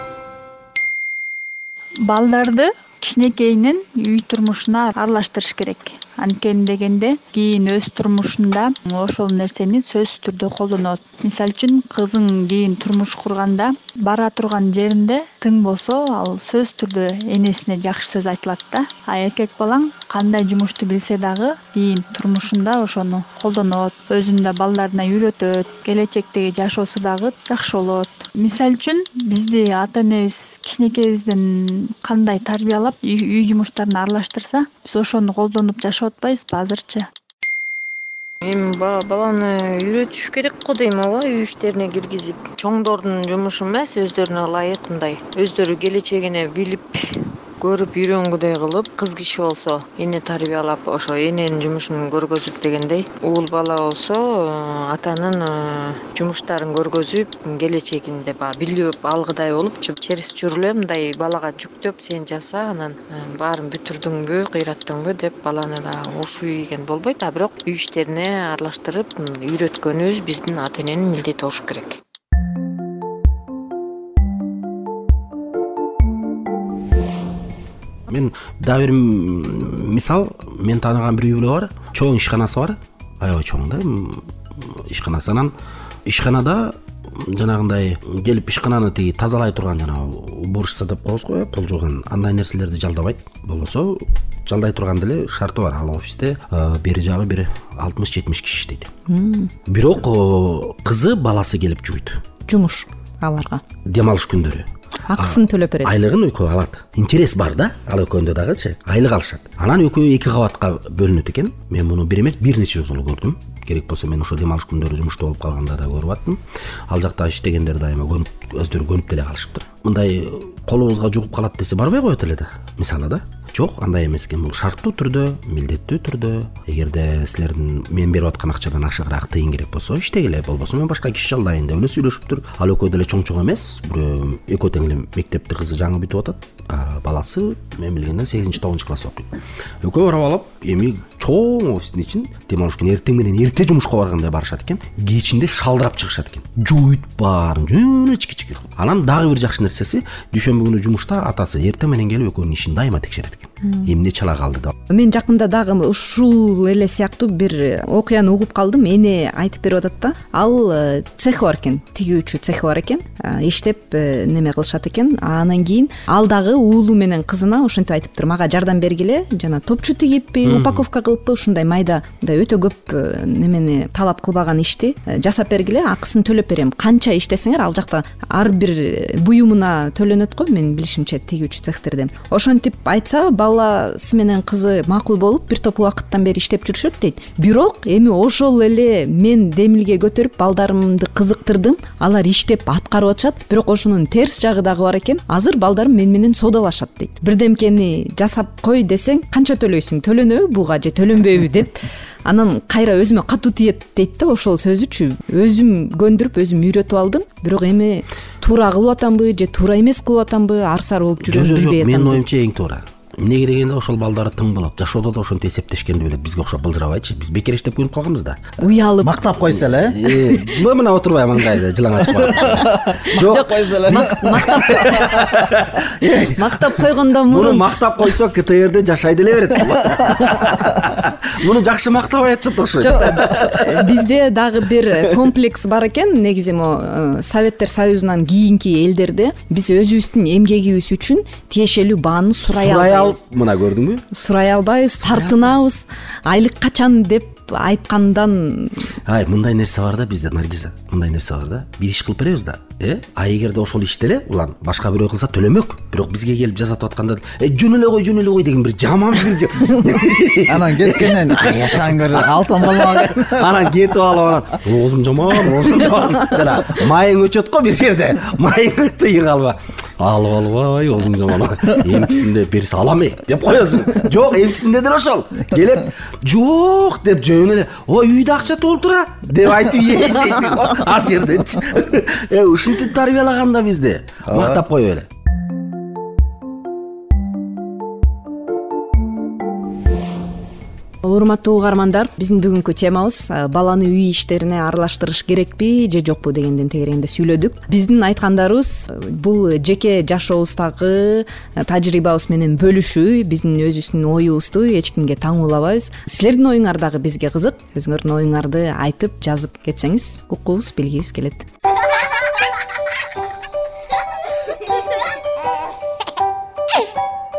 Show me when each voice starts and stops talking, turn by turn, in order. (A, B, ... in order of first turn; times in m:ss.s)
0:02.0-0:37.1 A
0:38.4-1:12.0 B
1:18.1-1:25.5 C
1:26.1-1:38.9 C
1:39.1-1:39.5 D
1:39.6-1:42.2 C
1:42.5-1:43.6 D
1:43.9-2:19.3 C
1:45.1-1:45.9 D
2:19.8-2:34.8 C
2:34.9-3:32.2 D
2:50.4-2:50.8 C
3:31.2-3:38.4 C
3:38.6-3:39.1 D
3:39.0-3:40.1 E
3:39.4-3:53.9 C
3:42.4-3:44.6 E
3:43.1-3:45.2 D
3:46.4-3:47.7 D
3:52.8-4:03.2 D
4:02.5-4:04.0 C
4:04.1-4:08.9 D
4:05.0-4:05.5 C
4:09.1-4:45.1 C
4:20.5-4:23.8 E
4:44.3-4:44.6 E
4:51.0-5:11.5 D